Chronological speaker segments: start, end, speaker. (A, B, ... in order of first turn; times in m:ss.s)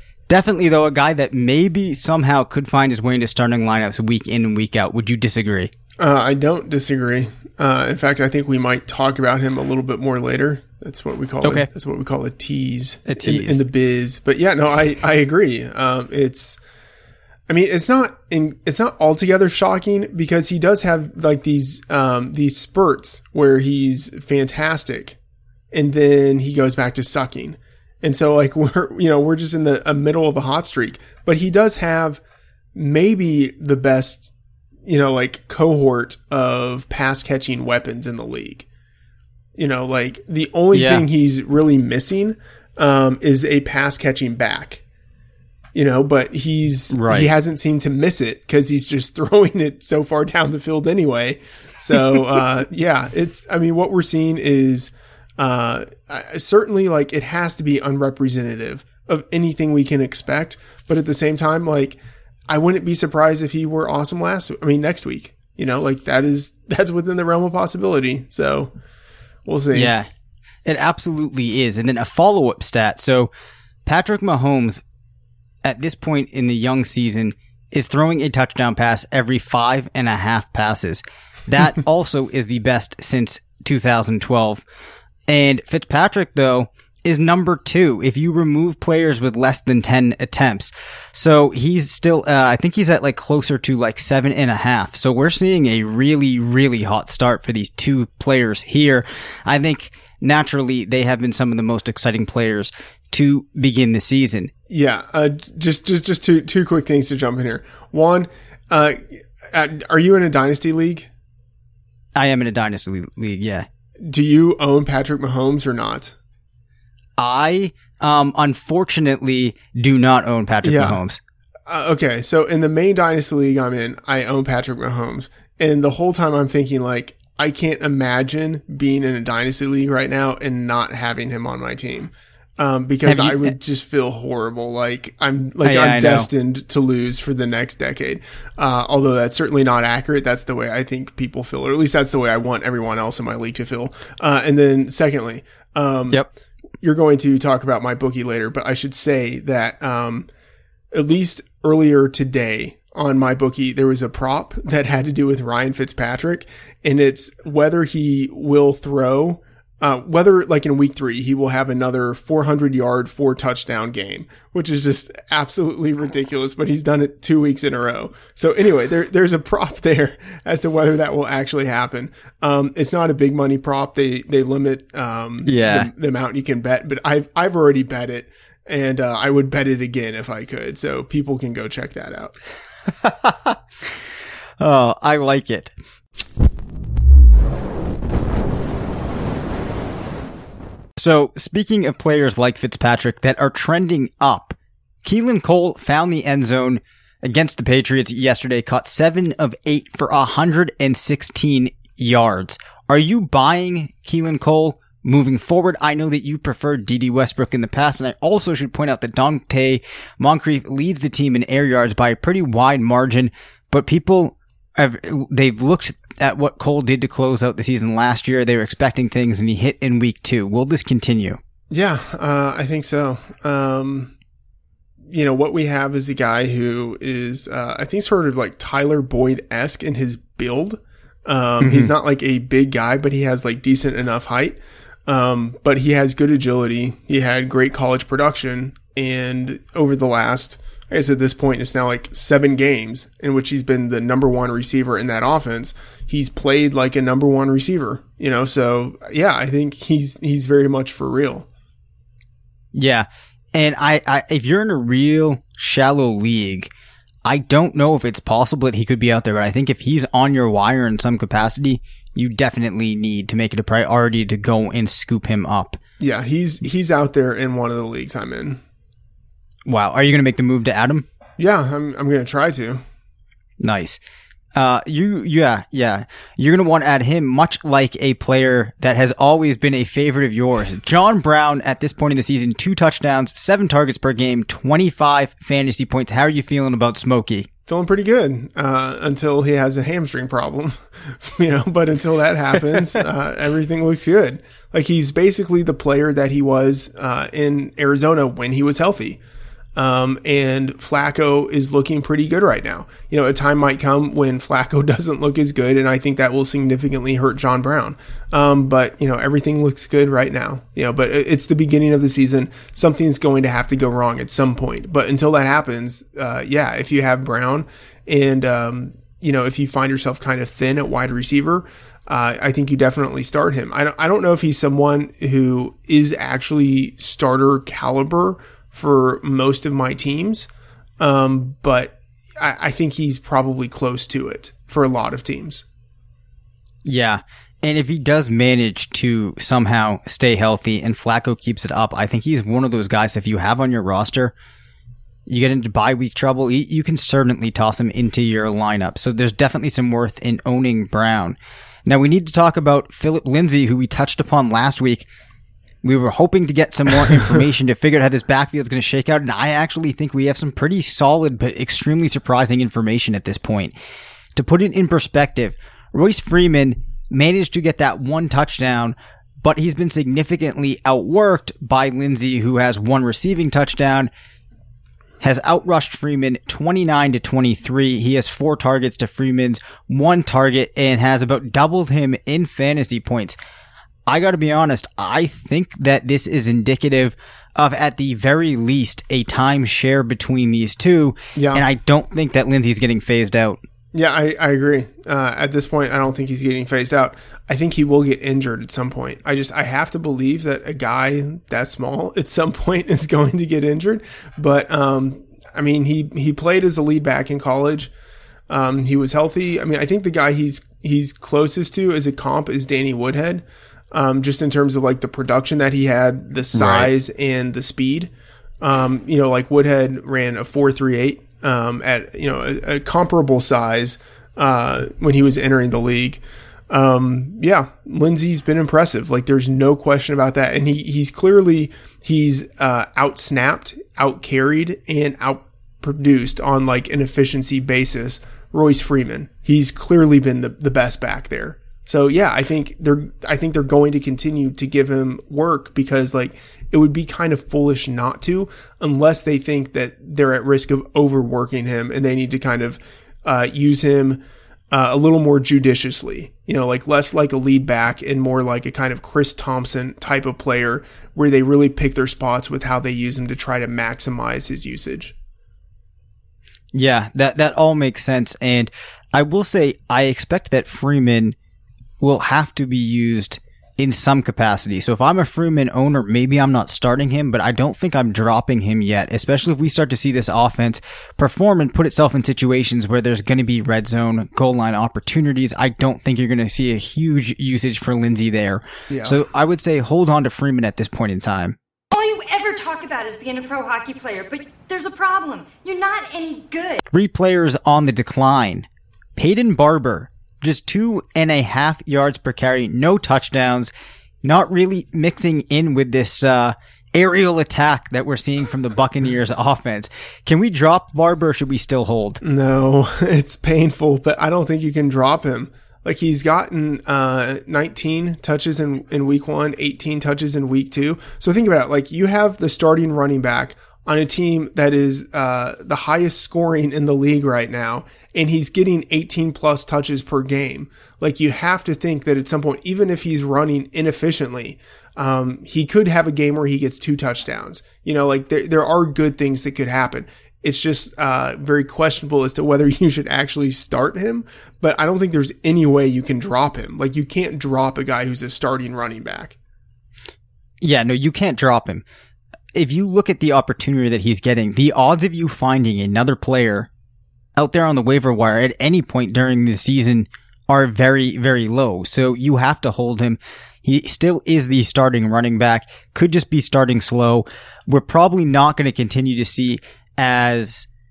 0:00.3-0:05.7 A
0:06.0-0:16.6 B
0:11.4-0:11.7 A
0:13.1-0:13.6 A
0:17.5-0:25.2 B
0:25.7-0:32.2 B
0:32.8-0:34.3 B
0:34.8-0:38.7 B
0:39.6-0:44.8 B
0:40.7-0:41.0 A
0:45.8-1:08.7 B
0:46.9-0:47.3 A
1:09.5-1:09.9 B
1:09.7-1:10.1 A
1:10.7-1:13.3 A
1:13.9-1:14.8 A
1:15.6-1:24.6 A
1:25.3-1:44.5 A
1:44.7-1:51.1 B
1:52.2-1:53.7 A
1:54.0-1:56.2 B
1:57.2-2:01.2 A
2:00.6-2:01.0 B
2:01.7-2:26.2 B
2:13.0-2:13.5 A
2:15.6-2:16.3 A
2:26.8-2:30.3 B
2:30.9-3:02.4 B
2:55.5-2:55.9 A
3:02.9-3:03.6 A
3:04.6-3:05.7 A
3:11.0-3:41.4 A
3:41.7-3:44.1 B
3:45.1-4:11.5 B
3:51.6-3:51.9 A
4:12.7-4:16.7 A
4:17.2-4:25.8 A
4:26.0-4:28.6 B
4:29.7-4:31.1 A
4:31.4-4:32.8 B
4:33.6-4:34.0 A
4:34.6-4:47.5 A
4:47.7-4:59.2 B
4:59.8-5:30.5 B
5:31.0-5:35.6 B
5:36.8-5:44.3 A
5:45.3-5:55.1 A
5:55.8-6:03.7 A
6:04.4-6:14.1 A
6:15.2-6:23.4 A
6:24.1-6:33.6 A
6:31.4-6:31.6 B
6:33.9-6:47.9 B
6:48.5-6:58.1 B
6:56.5-6:56.9 A
6:58.6-7:45.1 B
7:46.7-7:51.4 A
7:52.0-8:11.6 A
8:08.9-8:09.2 B
8:11.9-8:16.8 C
8:16.9-8:18.7 A
8:19.2-8:23.7 A
8:24.2-8:32.2 A
8:32.2-9:09.4 B
9:10.6-9:11.8 A
9:12.6-9:16.7 A
9:17.4-9:30.7 A